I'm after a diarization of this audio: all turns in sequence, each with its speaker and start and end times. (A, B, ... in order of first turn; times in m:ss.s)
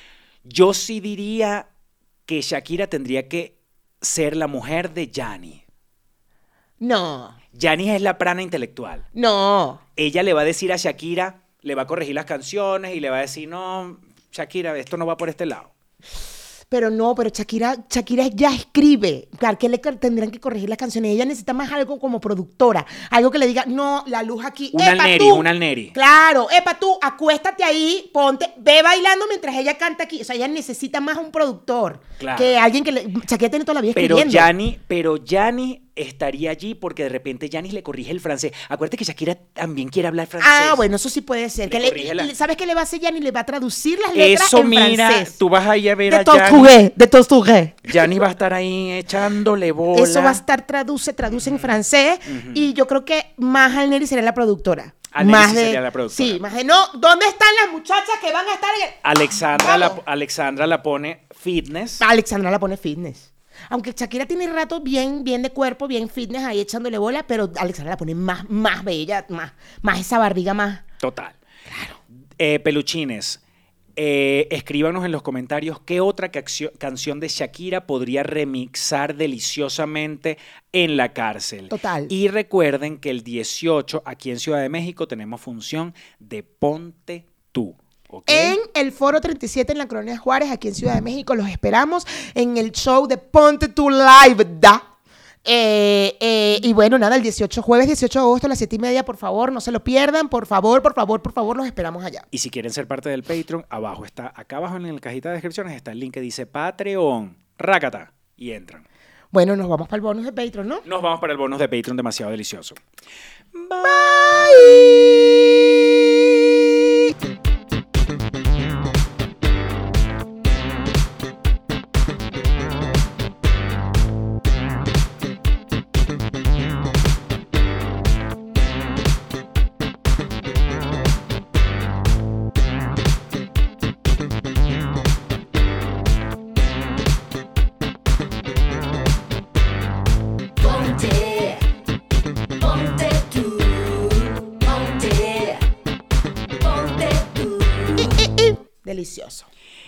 0:00.4-0:01.7 A
0:02.3-0:05.6 A
0:06.8-0:07.4 B
0:07.6-0:09.0 A
0:09.2-0:09.8 B
0:10.0-0:15.7 A
0:16.7-0:34.5 B
0:24.7-0:25.9 A
0:32.2-0:32.6 A
0:34.0-0:40.8 A
0:40.4-0:45.4 B
0:41.7-0:42.3 A
0:44.1-0:46.8 A
0:46.1-0:47.9 B
0:47.9-0:50.4 A
0:49.9-1:00.0 B
0:51.4-0:51.7 A
0:52.3-0:52.7 A
0:55.1-0:56.4 A
0:59.0-1:02.0 A
1:02.0-1:10.8 B
1:11.0-1:11.4 A
1:11.7-1:12.0 B
1:12.4-1:13.4 A
1:14.0-1:28.6 A
1:21.7-1:22.1 B
1:28.3-1:34.8 B
1:35.4-1:42.3 B
1:42.3-1:48.8 A
1:49.3-1:50.8 B
1:50.8-1:52.8 A
1:53.5-1:54.6 A
1:53.8-1:55.0 B
2:20.6-2:21.6 C
2:22.6-2:25.6 C
2:26.6-2:28.3 C
2:28.0-2:29.5 B